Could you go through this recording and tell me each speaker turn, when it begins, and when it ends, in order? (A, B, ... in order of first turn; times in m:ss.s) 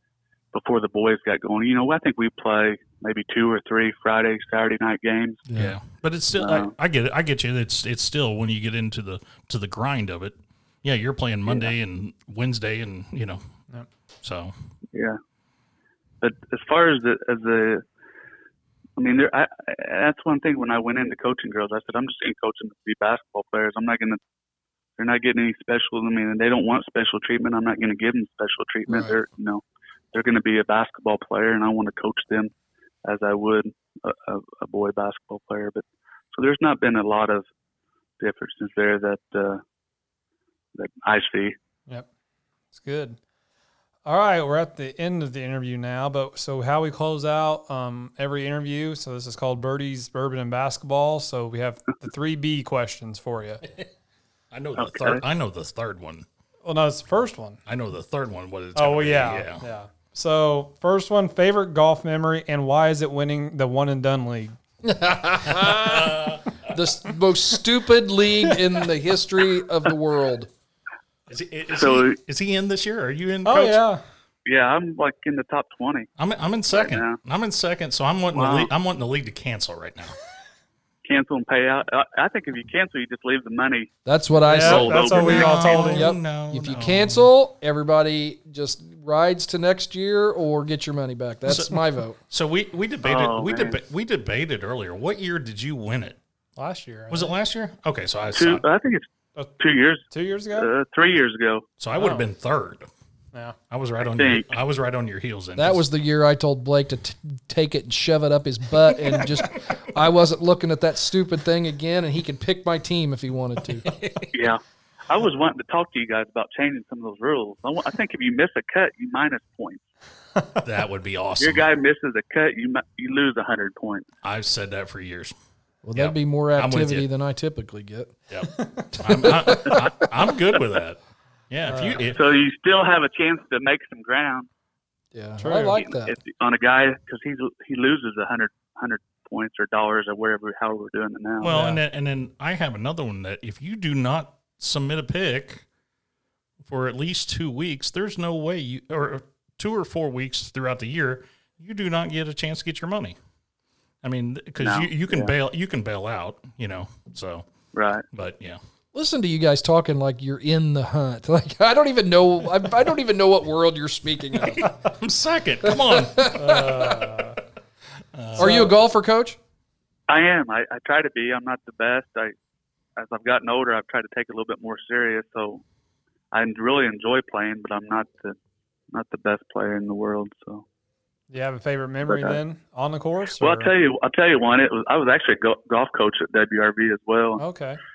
0:00.5-0:05.4 A
0:05.5-0:05.7 B
0:05.5-0:13.4 C
0:06.4-0:06.7 A
0:11.4-0:11.7 A
0:14.2-0:14.5 C
0:14.9-0:15.2 A
0:16.2-0:17.8 A
0:19.0-0:24.2 A
0:25.0-0:32.5 A
0:28.9-0:29.1 B
0:33.0-0:37.5 A
0:38.2-0:39.6 A
0:40.7-0:41.6 A
0:42.7-0:43.2 D
0:44.0-0:53.6 D
0:54.5-0:56.2 C
0:54.8-0:55.2 A
0:56.6-0:57.6 D
0:57.6-0:59.6 C
0:58.8-1:04.5 D
1:04.8-1:10.5 B
1:05.4-1:06.8 C
1:11.3-1:13.8 C
1:11.7-1:12.2 A
1:13.4-1:14.0 D
1:14.4-1:16.1 A
1:16.2-1:20.2 C
1:16.7-1:17.2 A
1:18.3-1:18.7 A
1:21.0-1:23.9 A
1:24.0-1:24.9 B
1:24.4-1:26.1 D
1:24.5-1:26.0 A
1:24.6-1:27.3 C
1:25.9-1:32.2 B
1:31.5-1:36.2 C
1:33.0-1:33.8 A
1:36.6-1:37.3 D
1:37.1-1:38.6 C
1:38.3-1:41.7 A
1:40.1-1:40.7 D
1:41.8-1:42.9 C
1:42.0-1:42.2 D
1:43.7-1:45.8 C
1:44.1-1:44.5 A
1:45.6-1:53.8 B
1:53.7-1:54.5 C
1:54.3-1:59.8 A
2:00.6-2:01.6 C
2:01.4-2:04.1 A
2:04.2-2:05.3 C
2:05.8-2:08.1 B
2:05.9-2:07.1 C
2:08.3-2:12.2 C
2:09.1-2:09.9 B
2:11.6-2:12.0 D
2:12.1-2:14.5 A
2:15.1-2:16.2 B
2:15.4-2:15.8 D
2:15.7-2:21.6 A
2:21.4-2:25.6 C
2:21.5-2:21.8 D
2:26.6-2:33.2 C
2:34.0-2:37.5 C
2:34.6-2:35.3 A
2:37.7-2:38.0 A
2:38.1-2:38.6 C
2:38.9-2:44.7 B
2:44.4-2:46.5 C
2:45.6-2:46.9 B
2:46.3-2:47.4 D
2:48.1-2:48.7 C
2:48.4-2:49.4 B
2:48.4-2:48.7 D
2:50.1-2:52.3 A
2:53.0-2:55.6 A
2:56.3-2:58.4 A
2:58.9-3:00.6 A
3:01.3-3:03.7 D
3:02.0-3:02.4 A
3:03.4-3:07.4 A
3:07.4-3:07.8 D